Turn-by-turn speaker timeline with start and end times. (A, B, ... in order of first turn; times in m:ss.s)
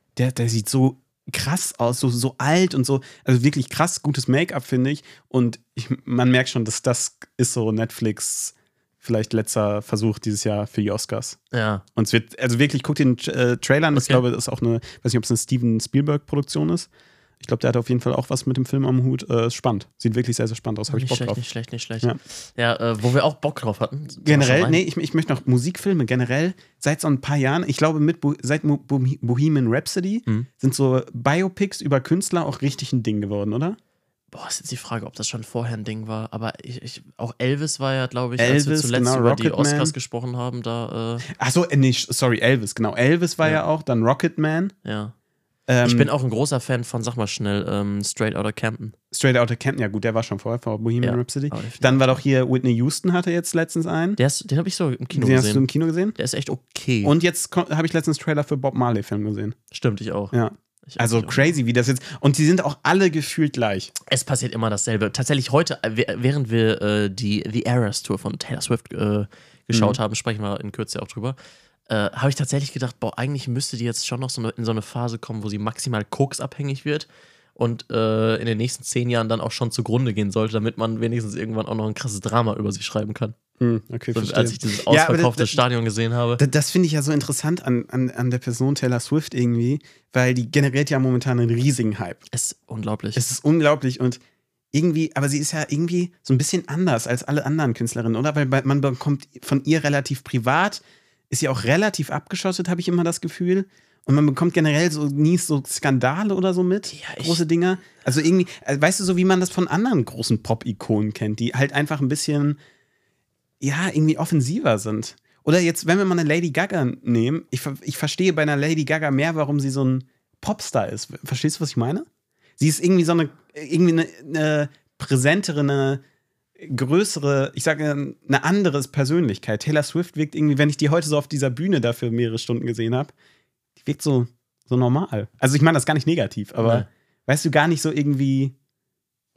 0:00.2-0:11.4 A
0:11.5-0:11.8 B
0:12.0-0:16.9 A
0:13.9-0:14.2 B
0:17.4-0:21.4 A
0:20.9-0:24.8 B
0:24.2-0:33.8 A
0:34.3-0:41.3 B
0:38.4-0:39.9 A
0:41.3-0:44.7 A
0:44.8-0:45.1 B
0:45.7-0:46.1 A
0:45.8-0:49.0 B
0:49.1-0:54.2 A
0:51.0-0:52.2 B
0:54.2-0:57.1 B
0:55.1-0:56.2 A
0:57.0-0:59.6 A
0:59.7-1:00.3 B
1:00.3-1:03.9 A
1:00.9-1:01.5 B
1:04.1-1:11.4 B
1:09.7-1:10.0 A
1:11.9-1:23.4 B
1:23.6-1:25.6 A
1:24.1-1:26.4 B
1:26.4-1:32.2 A
1:32.3-1:33.2 B
1:33.2-1:34.2 A
1:34.7-1:52.6 A
1:46.9-1:47.4 B
1:53.6-2:02.1 A
2:02.6-2:06.0 A
2:06.6-2:13.1 A
2:13.8-2:18.6 A
2:16.6-2:16.9 B